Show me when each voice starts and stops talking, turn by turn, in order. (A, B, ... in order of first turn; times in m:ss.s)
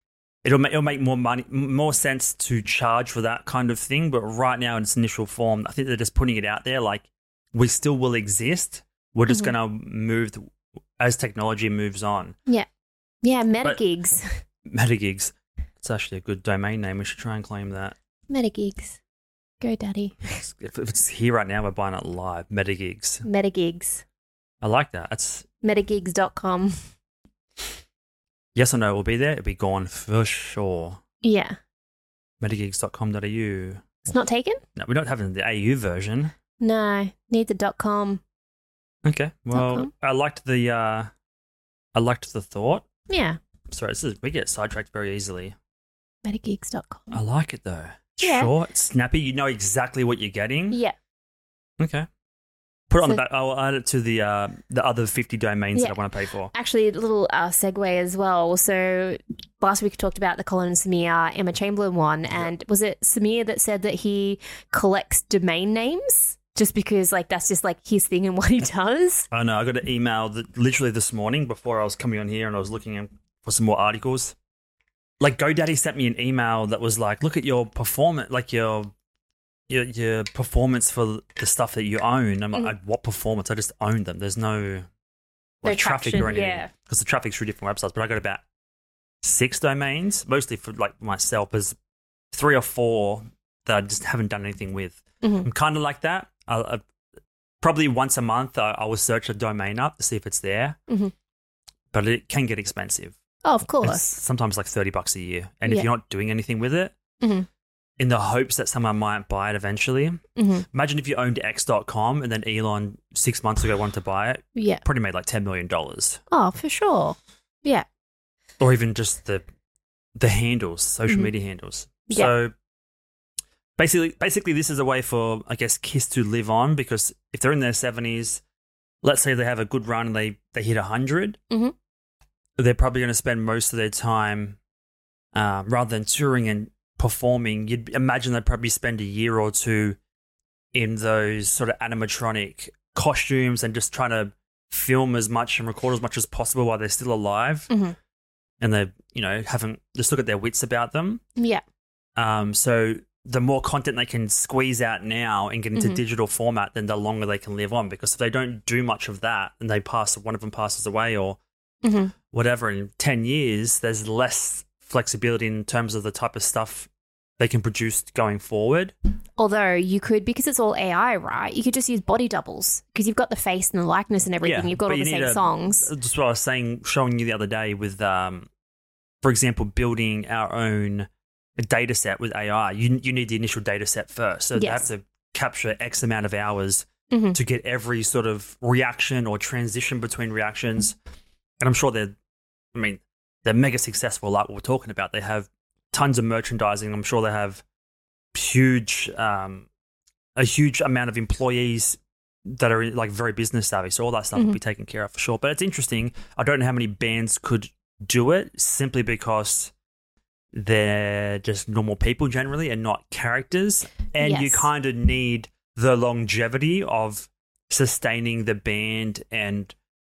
0:00.4-0:10.4 A
0:11.0-0:12.4 A
0:13.2-0:14.4 B
0:14.6-0:17.9 A
0:18.3-0:19.0 B
0:19.6-0:20.4 B
0:20.4-0:23.2 A
0:23.2-0:24.0 B
0:24.6-0:25.5 A
0:25.6-0:26.8 B
0:28.5-0:31.0 A
0:31.2-0:31.6 B
0:32.4-0:33.8 A
0:34.1-0:34.6 B
0:34.8-0:36.3 A
0:36.6-0:38.2 B
0:39.0-0:41.1 A
0:39.5-0:39.9 B
0:41.9-0:42.8 A
0:43.1-0:43.4 B
0:43.7-0:45.5 A
0:46.2-0:47.0 B
0:47.1-0:50.8 A
0:48.2-0:48.5 B
0:51.8-0:52.1 A
0:52.9-0:56.5 A
0:56.5-1:09.3 B
1:09.3-1:14.3 A
1:15.2-1:18.9 A
1:19.7-1:24.9 A
1:25.6-1:28.4 A
1:25.6-1:26.7 B
1:29.2-1:31.7 A
1:32.3-1:36.8 A
1:35.2-1:35.5 B
1:37.6-1:40.8 A
1:41.9-1:43.1 A
1:43.4-1:44.1 B
1:43.8-1:46.9 A
1:47.2-1:47.5 B
1:48.0-1:56.2 A
1:50.4-1:50.6 B
1:54.6-1:54.8 B
1:56.3-1:57.8 B
1:58.6-1:59.4 A
2:00.2-2:02.5 A
2:03.8-2:08.4 A
2:09.0-2:11.4 A
2:12.6-2:14.6 A
2:15.3-2:20.0 A
2:20.7-2:27.7 A
2:27.7-2:27.9 B
2:28.6-2:31.2 A
2:31.4-2:31.6 B
2:32.2-2:41.4 A
2:41.8-2:42.1 B
2:42.3-2:46.9 A
2:47.4-2:48.9 A
2:49.4-2:55.9 B
2:54.4-2:58.5 A
2:59.2-3:11.0 A
3:04.6-3:04.9 B
3:07.1-3:07.4 B
3:11.6-3:12.1 A
3:12.7-3:17.6 A
3:18.3-3:19.6 A
3:20.4-3:29.7 A
3:30.5-3:39.7 A
3:34.2-3:34.7 B